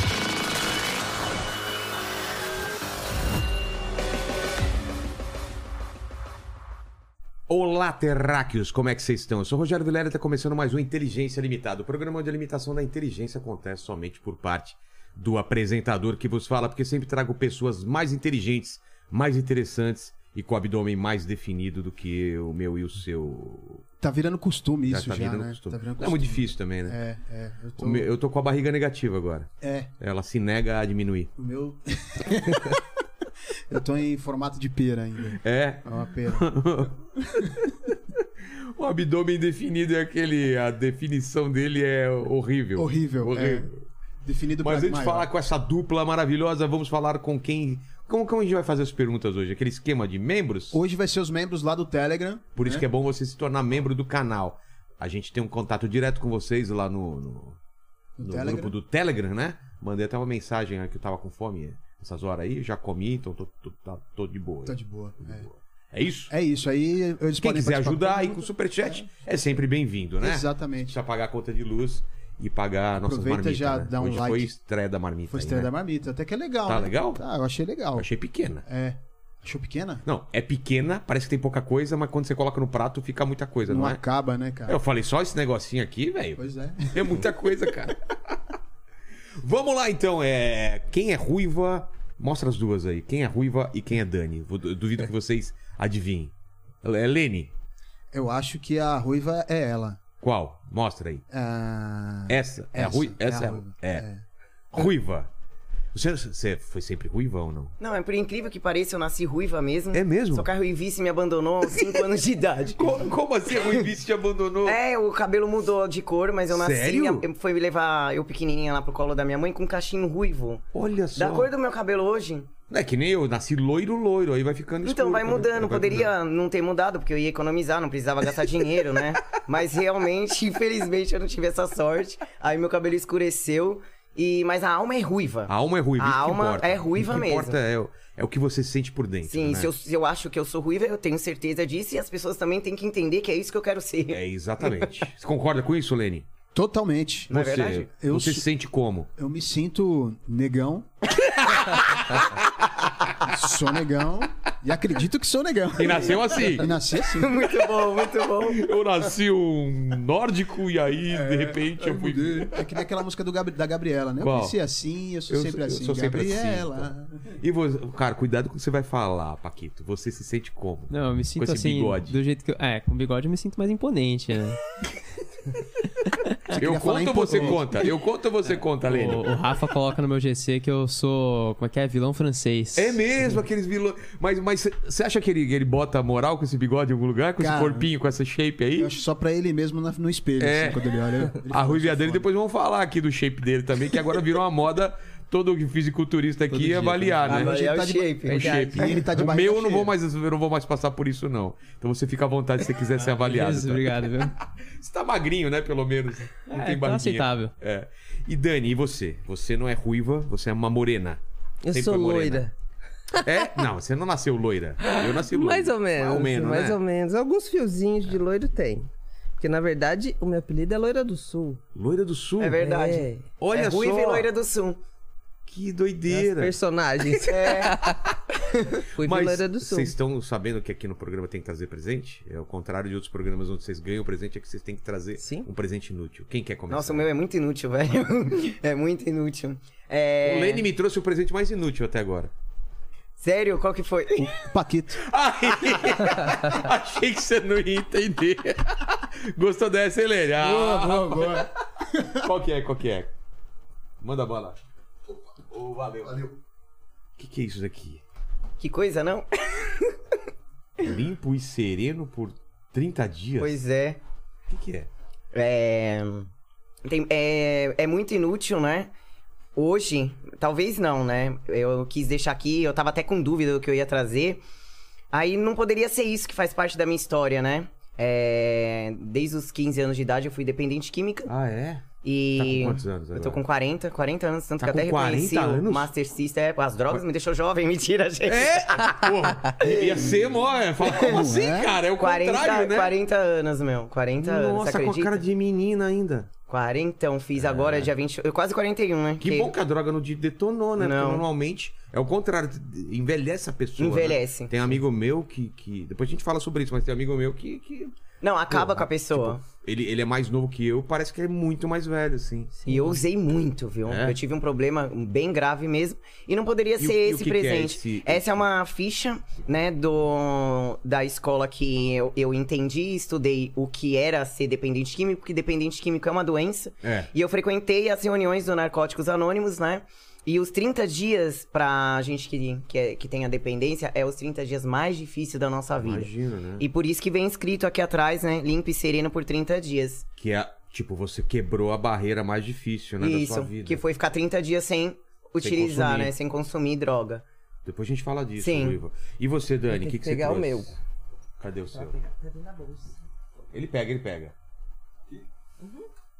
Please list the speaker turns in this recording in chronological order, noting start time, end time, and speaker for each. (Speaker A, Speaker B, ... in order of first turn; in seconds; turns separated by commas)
Speaker A: 7.5-23.8, Speaker B: 24.0-28.1, Speaker A: 24.9-27.0, Speaker A: 27.8-31.3, Speaker B: 29.6-29.9, Speaker B: 31.4-32.8, Speaker B: 33.7-36.6, Speaker A: 35.4-38.0, Speaker A: 38.8-43.8, Speaker B: 42.8-43.7, Speaker B: 44.2-45.3, Speaker A: 44.6-50.8, Speaker B: 50.7-52.8, Speaker A: 52.5-57.6, Speaker B: 58.2-58.7, Speaker A: 58.2-66.3, Speaker B: 64.7-65.5, Speaker B: 66.3-69.1, Speaker A: 67.4-75.7, Speaker B: 70.2-70.9, Speaker B: 73.0-74.5, Speaker B: 75.3-78.1, Speaker A: 76.7-77.2, Speaker A: 78.0-78.6, Speaker B: 78.6-80.0, Speaker A: 80.0-84.0, Speaker B: 83.7-84.8, Speaker A: 84.7-88.4, Speaker B: 86.4-87.2, Speaker A: 89.4-96.3, Speaker A: 96.8-97.5, Speaker B: 98.1-100.0, Speaker A: 100.2-101.2, Speaker B: 101.3-104.2, Speaker A: 102.3-104.0, Speaker A: 104.7-105.3, Speaker A: 105.9-107.7, Speaker C: 107.8-112.8, Speaker A: 109.9-110.5, Speaker A: 112.8-114.8, Speaker C: 114.6-120.6, Speaker A: 116.5-117.2, Speaker A: 120.7-121.5, Speaker C: 121.2-122.5, Speaker A: 122.7-126.1, Speaker C: 124.8-137.6, Speaker A: 135.5-139.7, Speaker C: 139.3-144.9, Speaker A: 144.1-146.2, Speaker B: 146.5-148.5, Speaker C: 147.3-147.9, Speaker A: 147.3-149.1, Speaker B: 149.2-150.9, Speaker A: 151.6-152.3, Speaker B: 153.2-157.5, Speaker A: 155.8-156.7, Speaker C: 157.1-158.6, Speaker A: 158.4-162.7, Speaker B: 161.1-167.3, Speaker A: 164.2-164.6, Speaker A: 165.3-172.1, Speaker D: 170.9-174.6, Speaker D: 176.0-176.6, Speaker B: 176.5-177.9, Speaker A: 176.5-179.2, Speaker D: 178.8-183.1, Speaker A: 182.7-188.9, Speaker B: 187.4-187.9, Speaker B: 188.8-192.2, Speaker A: 190.4-197.6, Speaker D: 196.5-197.3, Speaker B: 197.2-199.9, Speaker C: 197.3-199.0, Speaker E: 198.3-199.0, Speaker A: 198.3-211.2, Speaker D: 203.0-204.3, Speaker D: 206.5-207.5, Speaker E: 211.6-212.5, Speaker A: 211.7-212.4, Speaker A: 213.2-216.8, Speaker E: 214.8-218.9, Speaker E: 219.4-221.6, Speaker A: 221.7-222.6, Speaker C: 222.4-224.8, Speaker E: 222.6-223.2, Speaker A: 223.4-224.3, Speaker A: 225.5-226.5, Speaker E: 226.1-228.0, Speaker C: 227.2-227.8, Speaker E: 228.9-229.9, Speaker A: 229.0-237.0, Speaker E: 235.2-235.5, Speaker C: 236.7-240.6, Speaker A: 240.2-242.3, Speaker C: 243.2-244.3, Speaker B: 244.2-245.0, Speaker A: 245.0-251.5, Speaker B: 250.4-252.3, Speaker A: 252.1-253.1, Speaker A: 254.0-254.6, Speaker A: 255.5-256.3, Speaker A: 257.2-258.0, Speaker C: 258.6-259.9, Speaker A: 260.8-263.6, Speaker C: 263.4-264.0, Speaker A: 264.5-264.9, Speaker C: 265.3-266.3, Speaker C: 266.8-268.9, Speaker C: 269.5-274.4, Speaker C: 275.1-281.3, Speaker A: 281.3-281.8, Speaker C: 282.0-290.2, Speaker A: 282.4-283.4, Speaker A: 284.6-285.9, Speaker A: 288.2-292.9, Speaker C: 290.8-291.3, Speaker B: 290.9-291.8, Speaker C: 292.0-295.2, Speaker A: 294.2-296.3, Speaker C: 296.5-299.5, Speaker A: 297.4-297.9, Speaker A: 299.2-307.9, Speaker C: 300.8-301.2, Speaker C: 303.8-304.8, Speaker C: 308.2-309.4, Speaker A: 308.5-312.5, Speaker E: 312.6-313.0, Speaker C: 312.7-340.1, Speaker A: 313.8-314.2, Speaker A: 316.8-318.4, Speaker A: 326.8-327.1, Speaker A: 335.8-336.6, Speaker A: 340.2-343.8, Speaker C: 343.0-347.2, Speaker A: 345.4-346.1, Speaker A: 347.6-350.8, Speaker C: 348.4-348.8, Speaker E: 349.7-350.8, Speaker A: 351.4-351.9, Speaker E: 351.7-352.9, Speaker A: 353.5-354.3